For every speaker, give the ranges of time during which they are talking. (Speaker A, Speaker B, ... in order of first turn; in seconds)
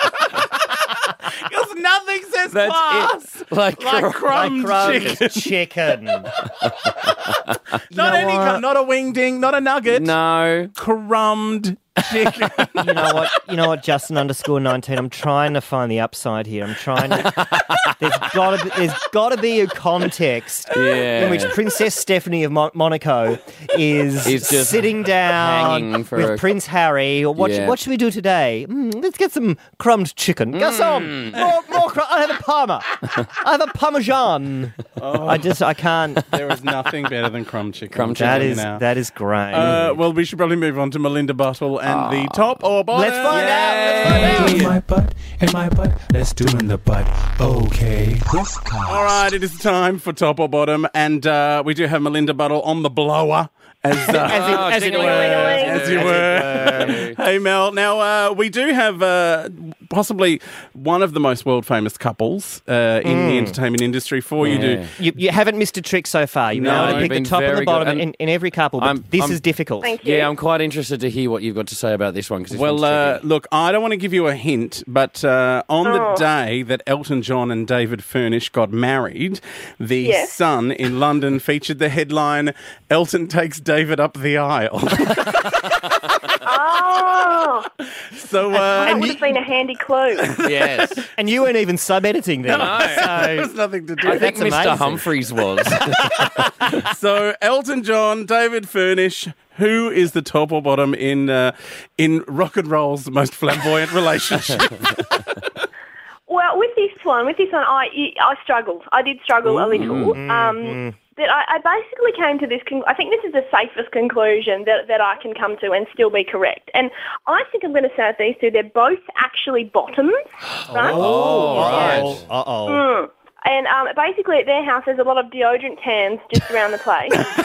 Speaker A: 1.4-5.5, 7.9-10.1, 10.8-13.3, 35.0-35.6, 36.2-38.9, 39.5-44.8, 48.9-64.9, 66.5-67.2, 72.5-85.7, 88.1-89.2, 90.2-90.9, 92.6-94.5, 95.9-105.2, 109.5-110.1, 121.9-122.2
Speaker B: 2.5-5.1, 9.9-10.7, 17.2-17.9, 20.7-21.6, 24.2-26.5, 27.4-27.8, 30.5-31.4, 37.9-38.7, 39.6-39.8, 41.9-42.6, 43.3-44.7, 54.2-57.2, 64.4-64.9, 66.6-68.1, 68.8-69.4, 70.0-73.2, 90.4-91.0, 92.5-93.4, 94.0-96.4, 109.7-110.2, 120.9-122.2
Speaker C: 4.3-6.3, 7.9-8.6, 12.8-36.3, 38.2-40.0, 42.9-44.7, 54.1-57.1, 63.0-63.6, 64.5-70.0, 88.5-89.3, 91.2-95.1, 110.1-110.9, 120.7-122.9
Speaker D: 44.5-49.3
Speaker E: 54.8-55.8, 69.8-70.3, 75.8-76.2, 80.0-80.4, 86.4-87.7, 88.8-90.4, 106.3-121.0, 121.5-121.9, 122.7-127.2